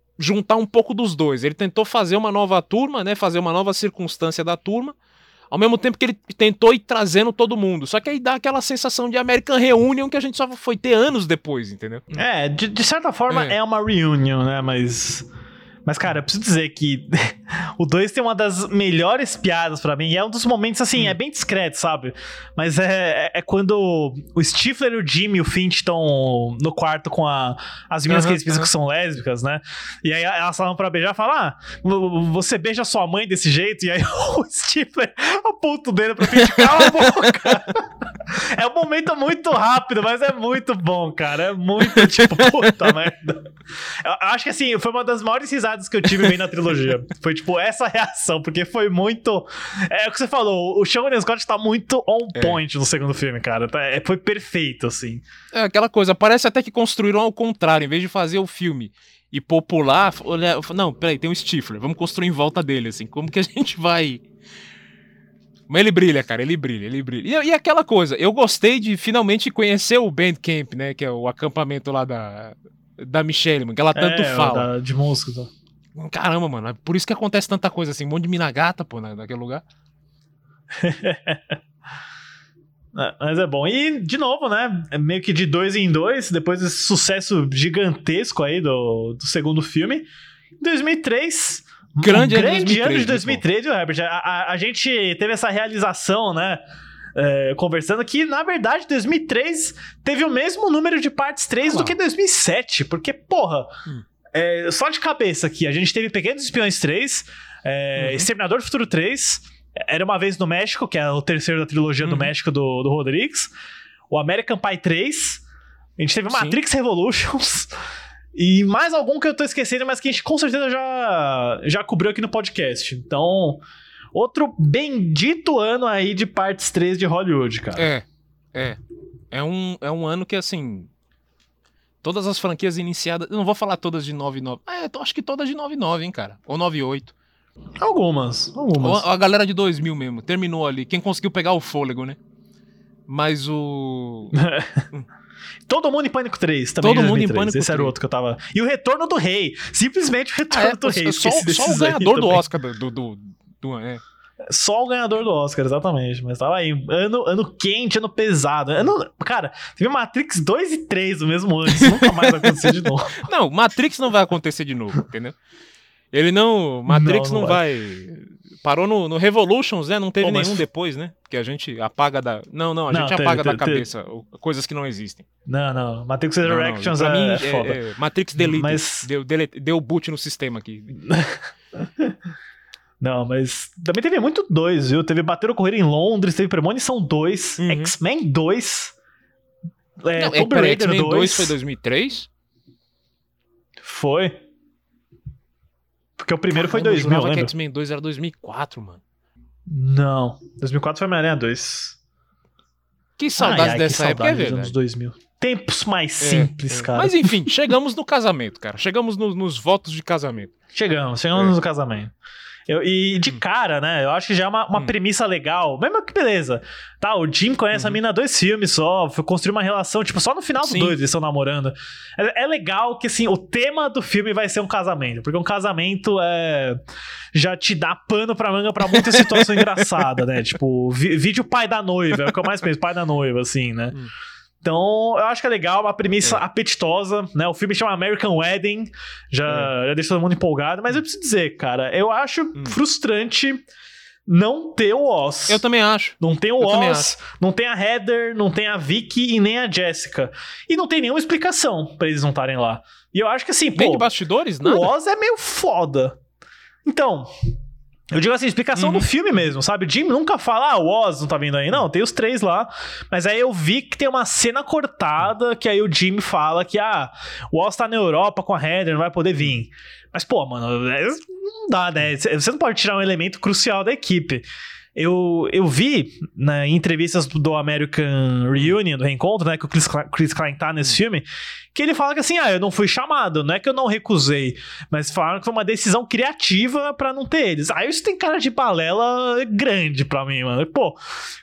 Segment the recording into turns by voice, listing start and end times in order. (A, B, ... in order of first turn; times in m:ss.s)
0:00.2-0:05.0 A
0:05.5-0:12.2 A
0:12.1-0:15.3 B
0:13.3-0:13.6 A
0:15.9-0:55.2 B
0:28.1-0:28.7 A
0:36.4-0:37.0 A
0:42.0-0:42.2 A
0:52.4-0:52.6 A
0:55.5-1:04.2 A
1:05.7-1:14.7 A
1:14.0-1:15.5 B
1:16.0-1:19.6 A
1:20.8-1:21.6 B
1:23.0-1:30.1 B
1:30.6-1:36.6 B
1:32.0-1:33.4 A
1:37.2-1:43.8 B
1:41.7-1:41.9 A
1:44.3-1:53.5 B
1:48.0-1:48.3 A
1:52.0-1:52.3 A
1:54.1-1:55.4 B
1:56.0-1:57.8 B
1:56.3-1:56.6 A
1:58.3-2:07.9 B
2:07.8-2:08.8 A
2:09.3-2:10.9 A
2:12.0-2:17.1 A
2:17.8-2:19.0 B
2:18.8-2:22.2 A
2:23.1-2:24.4 A
2:24.3-2:24.9 B
2:25.7-2:32.4 B
2:26.8-2:28.0 A
2:30.5-2:34.0 A
2:34.5-2:43.3 B
2:41.8-2:42.6 A
2:43.2-2:45.4 A
2:46.1-2:55.2 A
2:46.9-2:47.6 B
2:50.2-2:50.6 B
2:52.9-2:53.9 B
2:55.5-2:57.8 B
2:56.4-3:01.0 A
2:58.4-2:59.1 B
3:01.1-3:02.2 B
3:03.0-3:09.0 B
3:07.6-3:07.9 A
3:10.0-3:11.6 B
3:10.2-3:12.3 A
3:13.8-3:14.4 B
3:16.2-3:17.5 B
3:16.6-3:19.0 A
3:19.7-3:22.0 B
3:23.2-3:24.8 A
3:23.4-3:27.3 B
3:26.2-3:30.5 A
3:30.7-3:32.1 B
3:32.7-3:46.8 B
3:37.7-3:38.0 A
3:40.6-3:41.0 A
3:47.3-3:54.0 B
3:48.9-3:49.8 A
3:54.6-4:03.6 B
3:59.5-3:59.7 A
4:04.3-4:05.6 B
4:05.5-4:07.1 A
4:06.2-4:14.1 B
4:13.8-4:14.9 A
4:14.6-4:16.2 B
4:16.8-4:17.3 B
4:18.1-4:51.0 B
4:18.8-4:19.1 A